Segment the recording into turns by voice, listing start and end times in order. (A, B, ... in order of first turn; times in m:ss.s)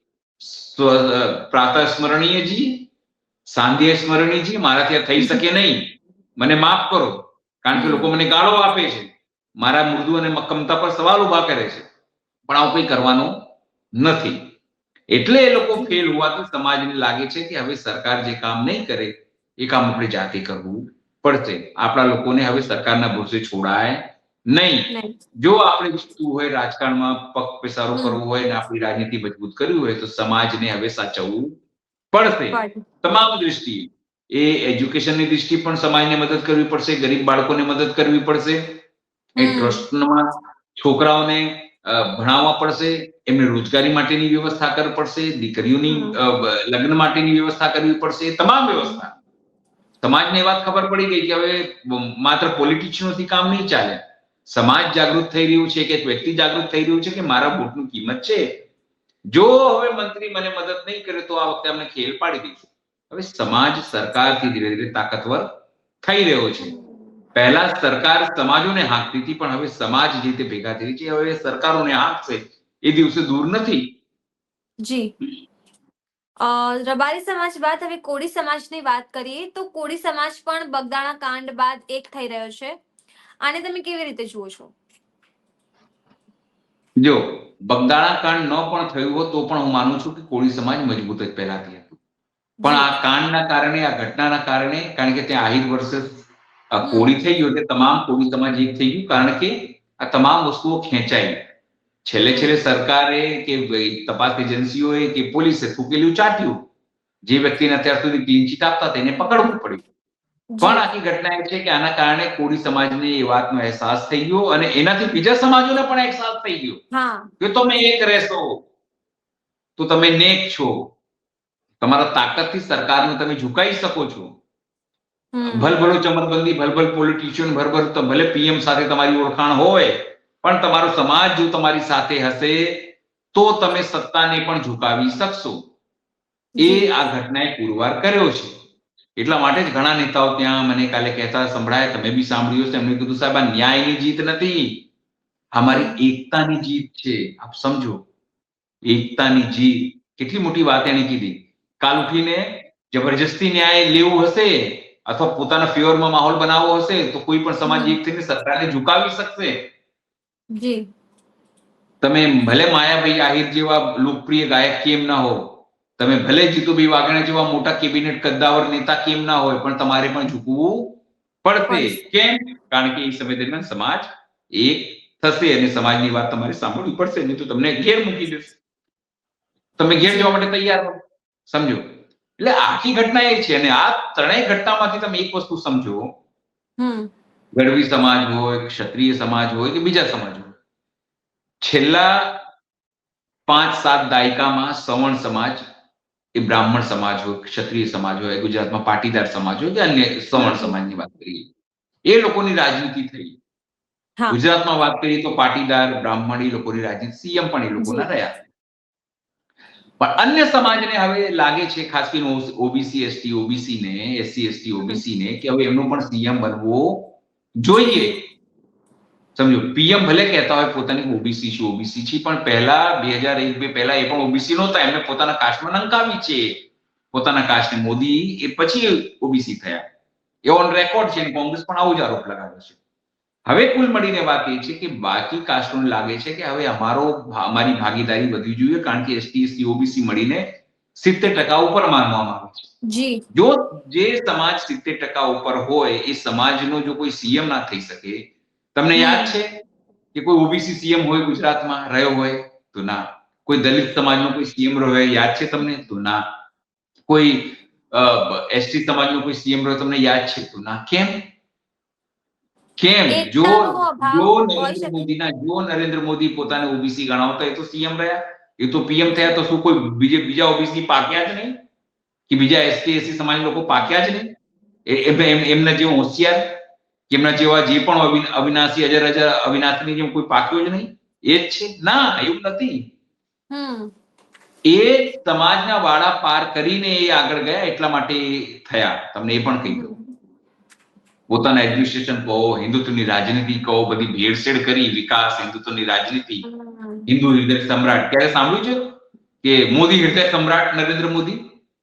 0:00.4-0:02.9 A
0:03.5-0:11.9 A
0:07.7-0:08.1 B
0:12.5-0:13.4 A
0:14.0-0:14.4 A
0:15.1-0:24.9 A
0:24.9-0:25.2 B
0:25.4-0:31.5 A
0:28.0-0:28.2 B
0:32.1-0:38.8 A
0:32.5-0:32.8 B
0:39.4-0:39.8 B
0:39.4-0:40.2 A
0:40.8-0:49.1 A
0:45.9-0:46.2 B
0:50.0-0:58.5 A
0:59.3-1:05.5 A
1:06.0-1:06.7 A
1:06.6-1:07.1 B
1:07.4-1:13.9 A
1:14.8-1:15.1 B
1:16.4-1:22.7 B
1:23.4-1:24.7 B
1:27.0-1:32.0 A
1:32.6-1:32.9 B
1:32.6-1:41.4 A
1:36.8-1:37.2 B
1:42.0-1:46.7 A
1:47.2-1:49.8 A
1:49.2-1:49.5 B
1:50.5-1:50.8 B
1:50.6-1:56.8 A
1:56.9-1:57.8 B
1:57.4-1:58.6 A
1:59.8-2:00.9 A
2:01.8-2:04.3 A
2:05.3-2:05.7 B
2:05.5-2:15.6 A
2:16.6-2:16.9 B
2:16.6-2:18.5 A
2:19.2-2:24.9 A
2:25.5-2:28.0 A
2:25.6-2:26.0 B
2:28.9-2:39.7 A
2:37.7-2:38.0 B
2:40.5-2:40.9 B
2:42.0-2:58.6 A
2:51.7-2:52.0 B
2:59.8-3:01.8 A
3:00.0-3:00.5 B
3:02.4-3:06.1 A
3:06.8-3:07.1 B
3:07.5-3:10.6 A
3:11.6-3:12.4 A
3:13.5-3:15.6 A
3:16.4-3:21.5 A
3:20.3-3:20.8 B
3:22.1-3:23.4 A
3:24.3-3:28.4 A
3:27.8-3:28.1 B
3:30.0-3:38.3 A
3:37.8-3:38.1 B
3:39.4-3:49.8 A
3:50.5-3:52.8 A
3:53.5-4:02.7 A
4:02.9-4:03.2 B
4:03.3-4:09.5 A
4:09.0-4:09.3 B
4:10.1-4:16.2 A
4:17.1-4:21.2 A
4:22.8-4:31.5 A
4:23.1-4:25.1 B
4:32.3-4:34.3 A
4:34.9-4:36.6 A
4:37.1-4:42.8 A
4:43.5-4:43.9 B
4:44.7-4:49.9 A
4:49.6-4:50.1 B
4:51.3-4:56.4 A
4:56.4-4:57.1 B
4:57.1-5:01.4 A